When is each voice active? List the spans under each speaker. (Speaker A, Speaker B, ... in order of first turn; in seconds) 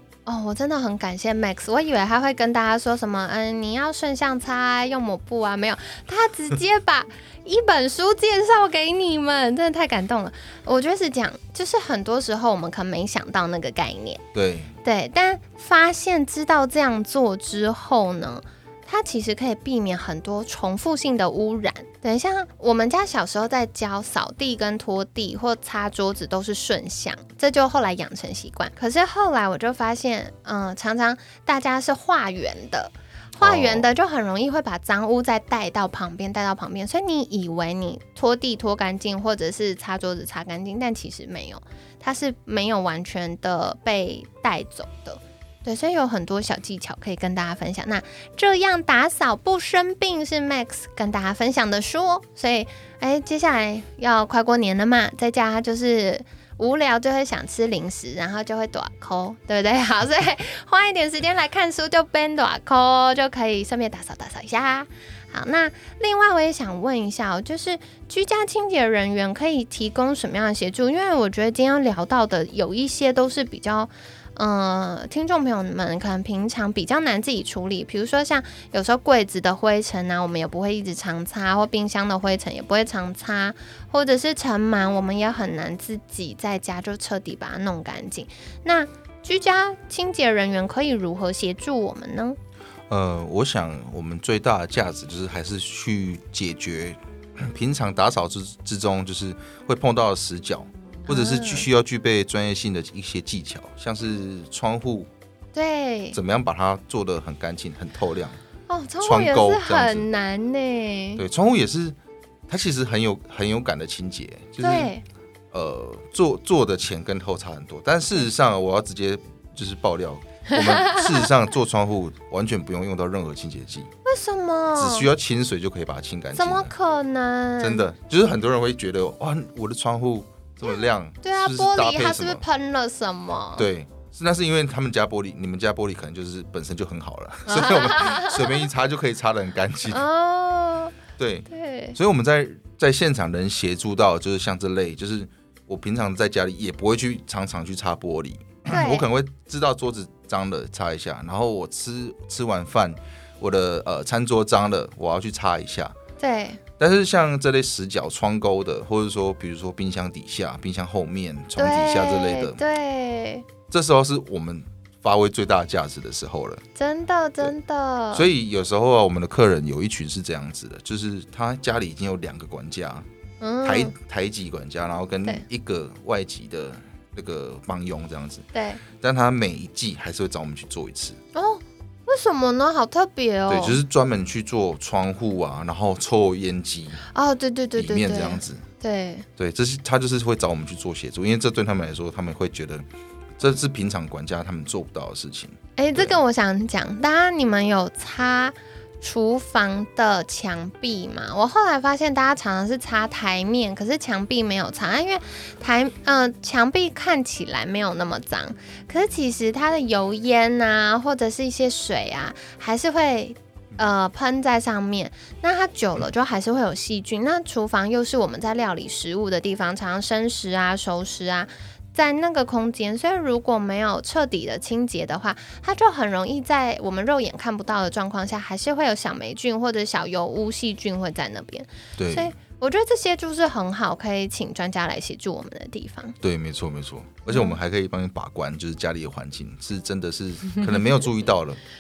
Speaker A: 0.3-14.2, 14.8-92.4, 101.1-101.7, 105.5-106.2, 108.7-111.2, 114.6-115.0, 120.5-121.0, 124.0-125.1, 126.3-127.9, 131.2-133.7, 137.5-138.6, 139.9-140.9, 141.5-142.0, 148.7-149.1, 156.2-156.6, 161.6-163.5, 166.8-168.3, 173.4-173.9, 178.5-178.8, 181.3-183.8, 187.1-189.3, 195.8-236.2, 237.3-237.6
Speaker B: 14.3-14.7, 33.4-33.9, 92.9-105.1, 106.1-108.4, 109.0-110.1, 111.2-112.0, 112.5-114.9, 115.5-123.9, 124.8-126.7, 127.6-132.4, 133.6-140.0, 141.2-155.9, 156.8-162.6, 163.7-166.6, 168.1-173.1, 173.6-181.2, 183.5-187.0, 187.8-188.6, 189.4-192.8, 193.4-196.2, 232.0-232.3, 236.2-241.6